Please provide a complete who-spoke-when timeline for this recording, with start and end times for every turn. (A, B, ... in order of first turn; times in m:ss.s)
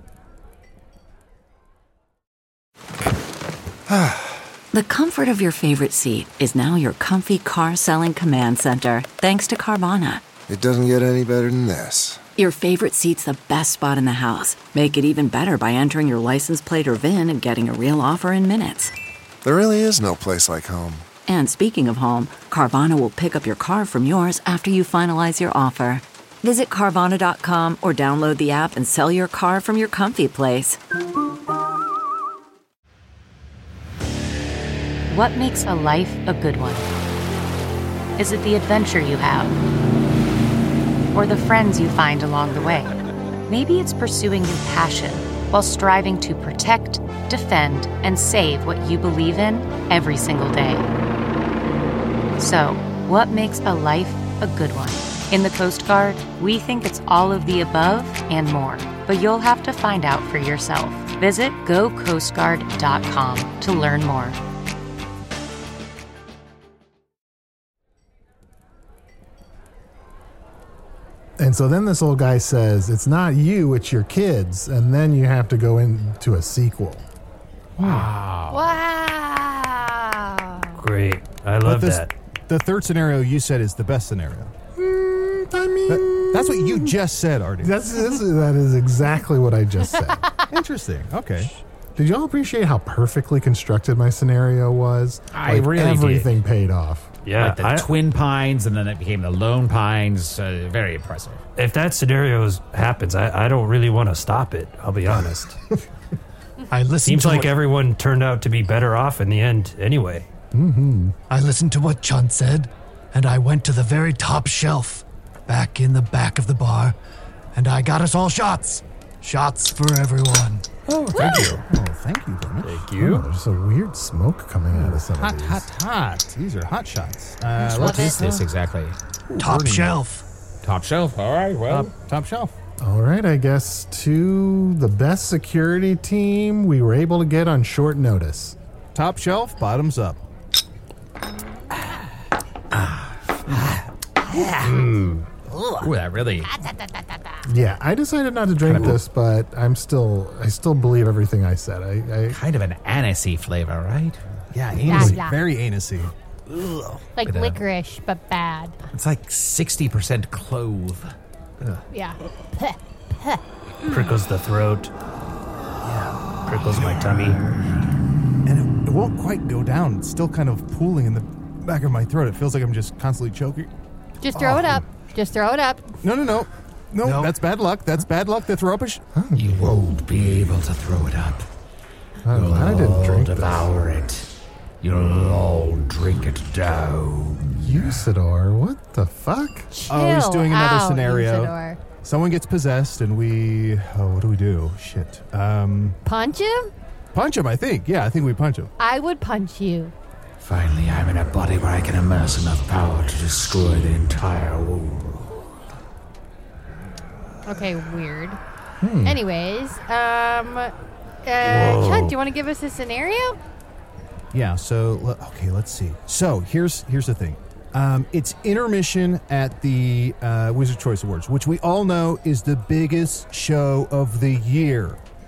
0:03.9-0:04.3 A
0:04.7-0:10.2 B
0:10.5-0:12.2 A
0:12.4-0:18.9 B
0:19.4-0:21.1 A
0:21.3-0:30.8 B
0:35.1-0:36.9 C
0:38.2-0:39.6 C
0:41.1-0:43.0 C
0:43.5-0:50.9 C
0:52.4-1:04.4 C
1:11.4-1:17.0 D
1:17.8-1:18.7 E
1:17.8-1:18.1 F
1:18.5-1:20.8 G
1:20.8-1:22.1 H
1:21.6-1:24.5 F
1:24.8-1:27.0 D
1:25.9-1:27.8 F
1:27.6-1:30.2 D
1:30.5-1:31.5 F
1:32.0-1:37.1 D
1:35.3-1:36.3 E
1:37.2-1:37.9 H
1:37.4-1:41.4 E
1:41.6-1:45.6 H
1:46.7-1:47.6 I
1:47.0-1:50.3 H
1:50.5-1:51.2 D
1:51.3-1:57.0 I
1:57.6-2:00.7 I
2:00.9-2:01.6 E
2:01.7-2:02.8 F
2:02.6-2:03.3 H
2:03.0-2:05.7 D
2:04.7-2:08.5 F
2:07.6-2:08.2 G
2:07.8-2:09.0 E
2:09.3-2:10.0 F
2:09.4-2:10.2 I
2:10.6-2:11.9 E
2:11.7-2:12.5 F
2:12.8-2:18.6 D
2:19.0-2:20.2 F
2:22.7-2:23.6 E
2:24.6-2:25.3 H
2:25.5-2:25.9 I
2:25.8-2:26.5 E
2:27.4-2:32.4 D
2:28.6-2:29.0 E
2:32.3-2:34.2 E
2:34.5-2:36.1 F
2:34.8-2:35.4 G
2:36.6-2:37.0 I
2:37.2-2:38.8 G
2:37.2-2:37.6 E
2:38.9-2:41.1 E
2:41.9-2:43.4 G
2:43.9-2:44.9 H
2:45.9-2:46.1 F
2:46.4-2:47.4 H
2:48.4-2:53.7 F
2:54.2-2:55.8 G
2:54.3-2:54.8 F
2:56.0-2:59.0 F
2:57.0-2:57.4 I
2:59.2-2:59.7 D
2:59.3-3:01.5 E
3:02.2-3:03.7 D
3:02.3-3:04.3 E
3:04.8-3:08.0 E
3:07.6-3:09.7 D
3:09.7-3:11.8 G
3:09.9-3:16.0 F
3:16.0-3:16.7 G
3:17.1-3:18.7 F
3:18.8-3:19.9 G
3:20.4-3:25.4 E
3:27.5-3:28.4 G
3:28.8-3:29.2 D
3:29.0-3:33.4 G
3:31.4-3:32.2 H
3:34.3-3:45.0 F